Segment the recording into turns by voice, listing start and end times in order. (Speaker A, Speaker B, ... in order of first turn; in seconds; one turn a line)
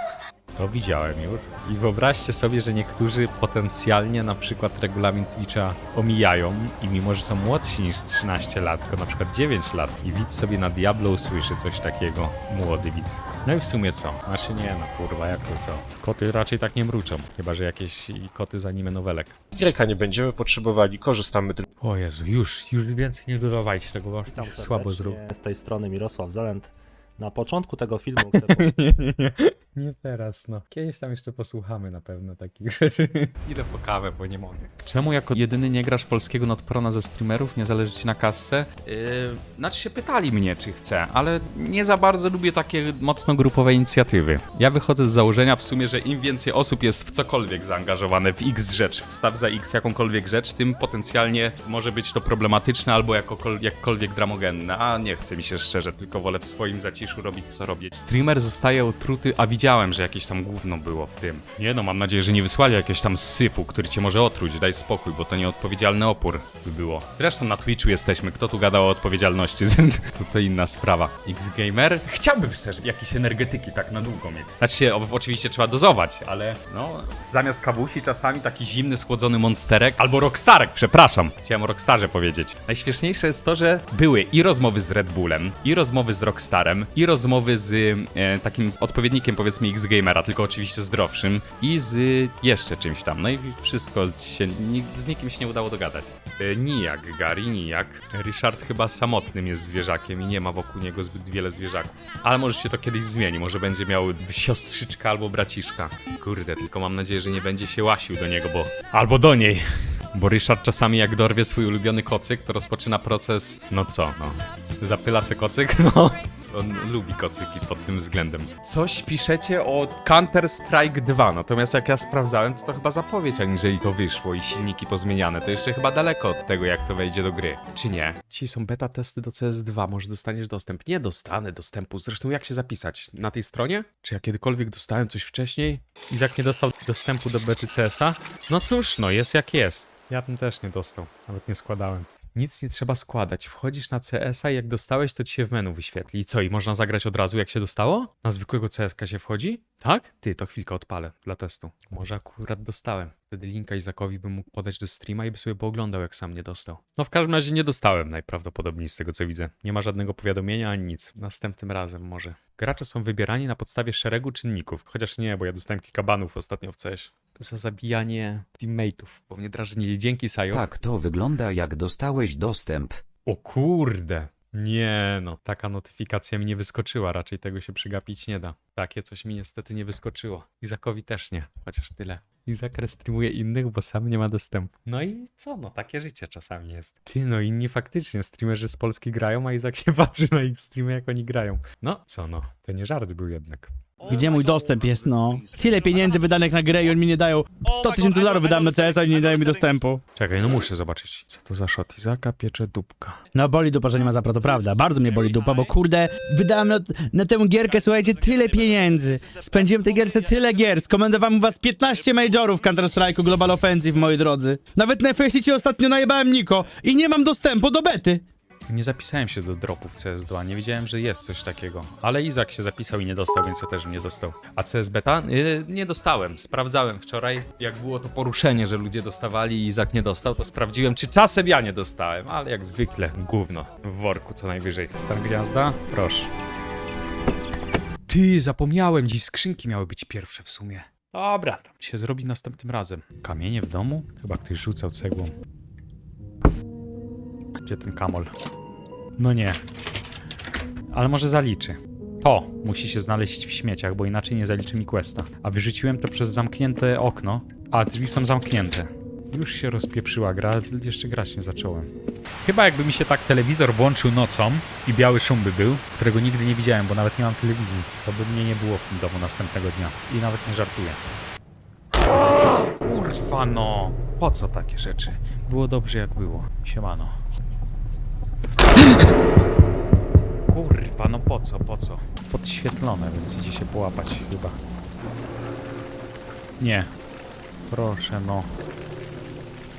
Speaker A: 0.6-19.4
Speaker B: 19.5-21.6
Speaker A: 21.8-25.2
Speaker C: 24.3-28.7
Speaker A: 28.2-170.7
Speaker D: 170.5-172.9
Speaker A: 173.2-193.7
Speaker E: 194.1-200.0
Speaker A: 200.2-203.2
Speaker E: 203.3-218.2
Speaker A: 218.7-236.3
Speaker A: 238.1-245.3
Speaker A: 247.6-248.3
Speaker A: 249.2-249.6
Speaker A: 250.9-261.9
Speaker A: 262.4-271.0
Speaker A: 272.0-277.1
Speaker A: 278.6-279.2
Speaker A: 280.5-284.6
Speaker A: 286.6-286.9
Speaker A: 287.7-288.5